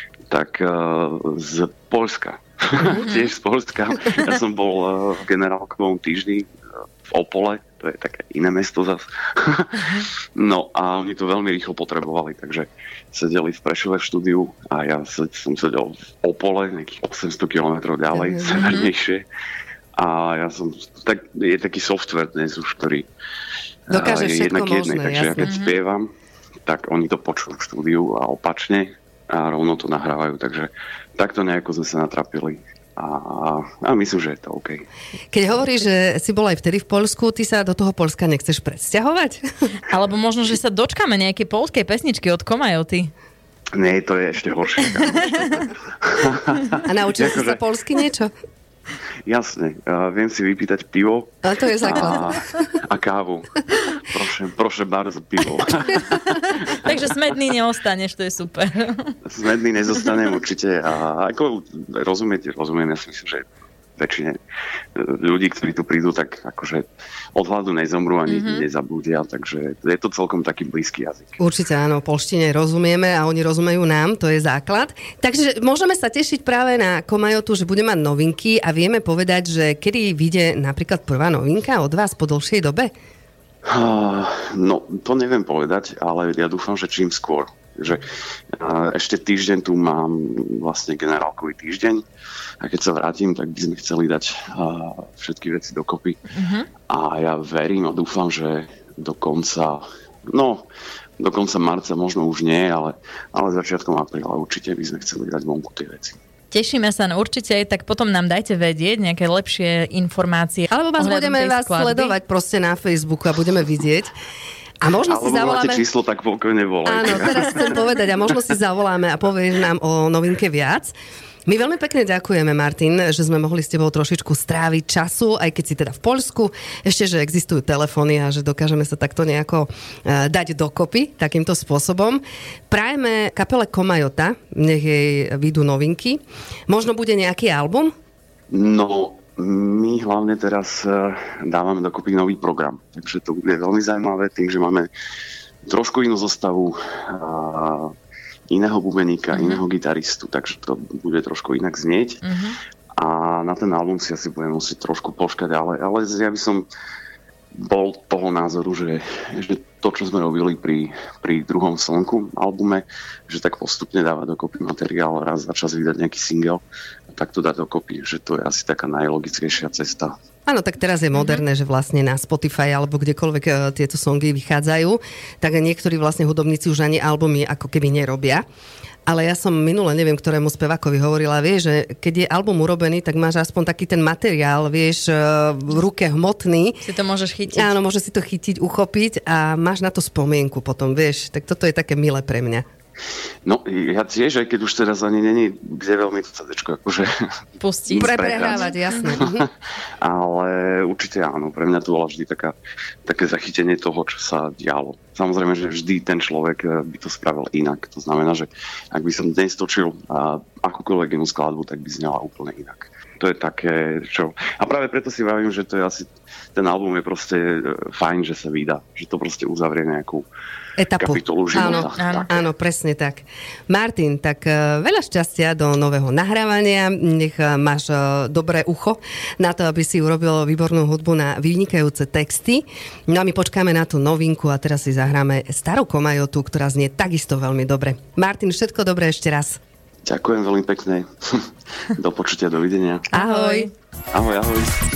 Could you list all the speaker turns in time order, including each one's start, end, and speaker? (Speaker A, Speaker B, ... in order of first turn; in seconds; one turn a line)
Speaker A: 0.3-6.5
Speaker B: 2.9-3.3
Speaker A: 7.1-19.3
Speaker C: 18.1-18.7
Speaker B: 18.6-18.9
Speaker A: 20.0-23.1
Speaker A: 23.9-26.1
Speaker C: 23.9-25.5
Speaker B: 25.4-25.7
Speaker A: 26.7-34.8
Speaker C: 35.3-39.4
Speaker B: 39.9-43.1
Speaker A: 43.8-47.6
Speaker C: 46.9-48.3
Speaker A: 49.3-56.8
Speaker C: 51.4-52.6
Speaker B: 56.7-59.1
Speaker A: 59.3-64.4
Speaker A: 65.0-71.4
Speaker B: 68.3-68.7
Speaker C: 71.4-82.9
Speaker A: 83.7-92.0
Speaker A: 92.6-96.2
Speaker B: 96.3-96.7
Speaker A: 96.9-100.7
Speaker A: 101.2-106.2
Speaker B: 106.5-112.2
Speaker C: 110.7-114.1
Speaker C: 114.8-115.8
Speaker A: 115.1-117.8
Speaker C: 116.8-120.9
Speaker C: 121.5-137.9
Speaker A: 138.5-144.9
Speaker A: 145.7-147.9
Speaker A: 148.5-152.2
Speaker B: 149.3-149.6
Speaker B: 152.2-152.6
Speaker A: 153.0-156.7
Speaker A: 157.6-170.1
Speaker C: 170.5-178.4
Speaker C: 179.1-186.8
Speaker B: 186.8-187.7
Speaker C: 187.5-192.7
Speaker A: 193.4-197.1
Speaker B: 197.6-199.2
Speaker A: 197.9-202.6
Speaker C: 197.9-199.5
Speaker A: 203.1-220.3
Speaker C: 220.8-239.6
Speaker A: 221.0-222.4
Speaker B: 222.0-222.3
Speaker A: 240.1-243.1
Speaker B: 243.1-243.7
Speaker C: 243.1-243.7
Speaker A: 244.1-244.8